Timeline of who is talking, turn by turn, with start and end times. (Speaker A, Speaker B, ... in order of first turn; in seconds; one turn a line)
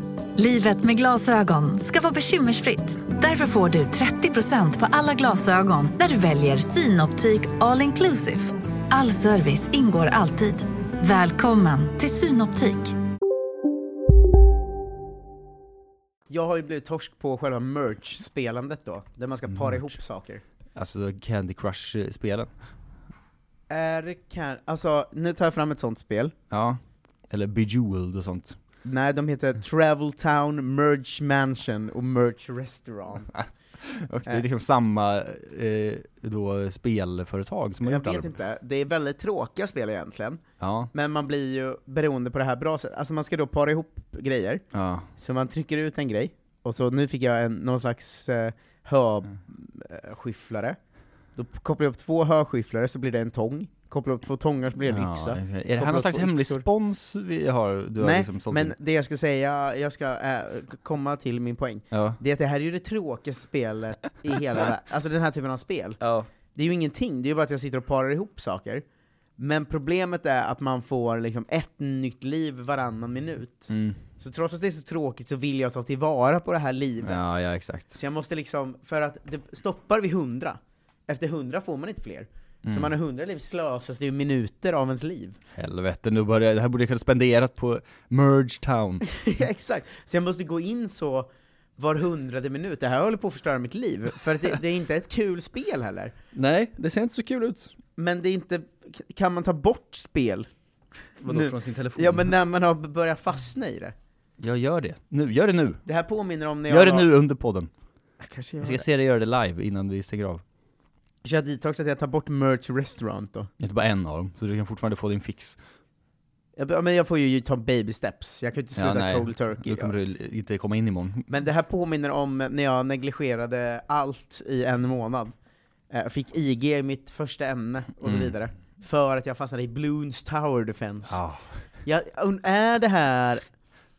Speaker A: 0.4-12.9
Speaker B: 16.3-20.4
Speaker C: 20.8-22.5
Speaker B: 23.7-26.3
Speaker C: 26.5-28.6
Speaker B: 28.8-33.3
Speaker C: 33.4-38.3
Speaker B: 37.8-40.4
Speaker C: 40.6-40.9
Speaker B: 40.9-44.6
Speaker C: 44.7-45.1
Speaker B: 45.2-50.8
Speaker B: 51.4-56.6
Speaker C: 54.9-58.7
Speaker B: 58.0-66.0
Speaker C: 61.9-62.2
Speaker C: 66.0-66.3
Speaker B: 66.5-68.8
Speaker B: 69.4-77.3
Speaker C: 73.7-74.0
Speaker C: 77.0-78.0
Speaker B: 77.9-85.4
Speaker C: 82.7-82.9
Speaker C: 85.6-89.0
Speaker B: 89.2-96.1
Speaker C: 96.3-97.7
Speaker B: 98.0-100.5
Speaker C: 101.2-102.3
Speaker B: 101.2-103.9
Speaker C: 104.4-105.8
Speaker B: 105.9-107.1
Speaker C: 106.7-107.7
Speaker B: 108.2-108.8
Speaker C: 108.6-110.4
Speaker B: 111.2-113.5
Speaker C: 113.6-115.6
Speaker B: 116.6-120.0
Speaker C: 118.8-121.3
Speaker B: 121.3-125.3
Speaker B: 125.9-131.2
Speaker C: 128.1-128.3
Speaker C: 131.1-131.5
Speaker B: 131.8-133.4